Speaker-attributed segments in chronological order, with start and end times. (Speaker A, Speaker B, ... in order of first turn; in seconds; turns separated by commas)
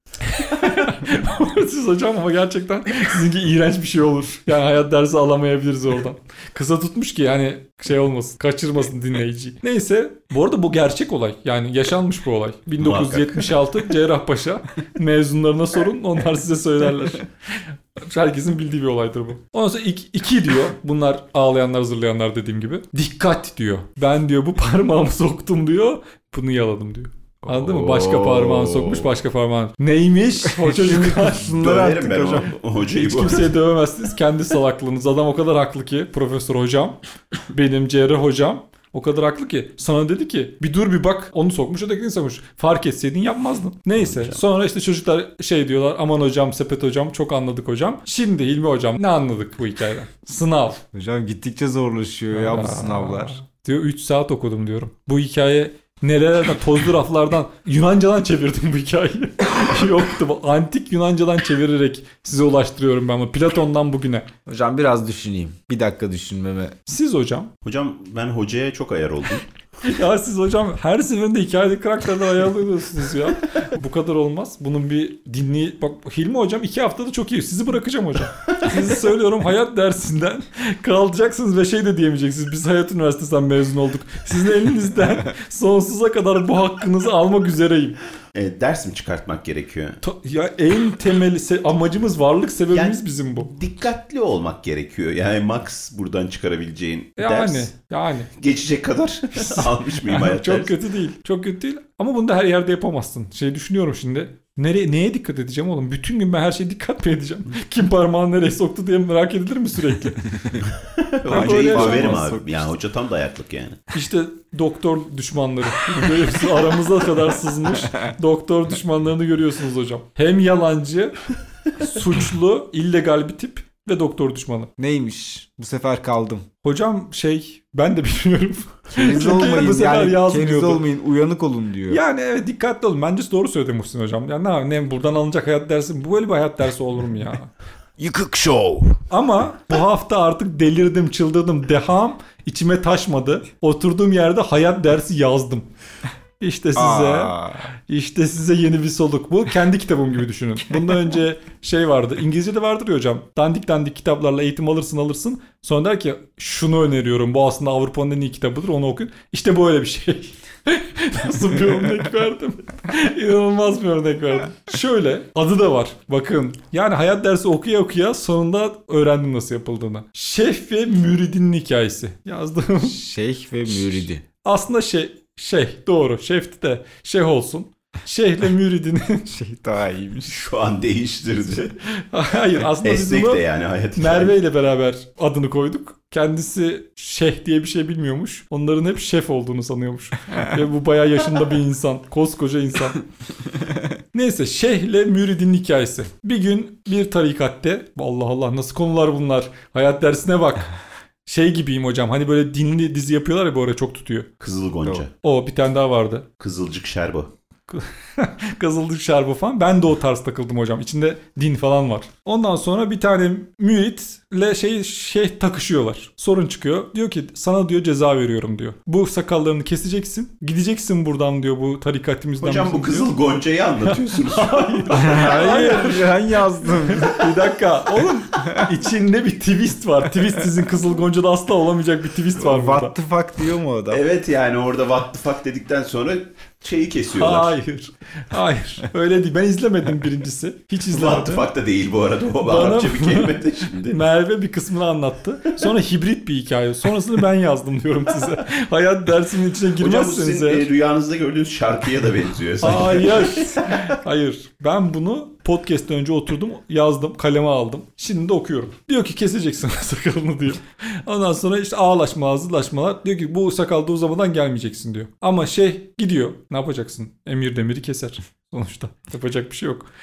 Speaker A: 0.3-31.6, Speaker B: 12.8-13.5, Speaker C: 27.4-29.1, Speaker C: 30.5-32.5, Speaker B: 31.5-33.5, Speaker A: 32.9-50.8, Speaker B: 44.0-44.4, Speaker C: 50.9-53.4, Speaker A: 52.3-64.3, Speaker C: 64.5-66.7, Speaker A: 66.9-67.5, Speaker B: 67.6-69.5, Speaker A: 69.8-88.0, Speaker B: 88.3-90.0, Speaker A: 90.0-93.5, Speaker B: 92.7-97.7, Speaker A: 97.2-98.3, Speaker B: 98.4-100.8, Speaker A: 99.3-110.6, Speaker B: 110.8-113.9, Speaker C: 111.3-112.7, Speaker A: 111.3-112.2, Speaker A: 113.9-121.2, Speaker A: 121.8-124.7, Speaker C: 124.8-126.5, Speaker A: 126.6-130.8, Speaker C: 128.9-132.0, Speaker A: 131.9-137.5, Speaker B: 138.0-138.8, Speaker A: 139.1-145.7, Speaker A: 146.4-173.0, Speaker C: 146.8-147.7, Speaker C: 172.8-174.2, Speaker A: 173.8-179.3, Speaker C: 179.3-180.4, Speaker B: 180.3-181.8, Speaker A: 181.9-183.4, Speaker B: 182.8-184.3, Speaker A: 183.9-193.0, Speaker A: 194.1-200.7, Speaker A: 201.2-204.3, Speaker B: 204.4-205.1, Speaker A: 205.2-206.2, Speaker B: 206.4-207.3, Speaker A: 207.7-223.1, Speaker B: 222.4-224.8, Speaker A: 223.9-232.9, Speaker C: 224.9-227.2, Speaker C: 232.4-234.0, Speaker B: 233.9-237.5, Speaker A: 237.1-241.5, Speaker B: 240.9-244.0, Speaker A: 242.4-250.7, Speaker B: 249.8-253.7, Speaker A: 252.6-269.9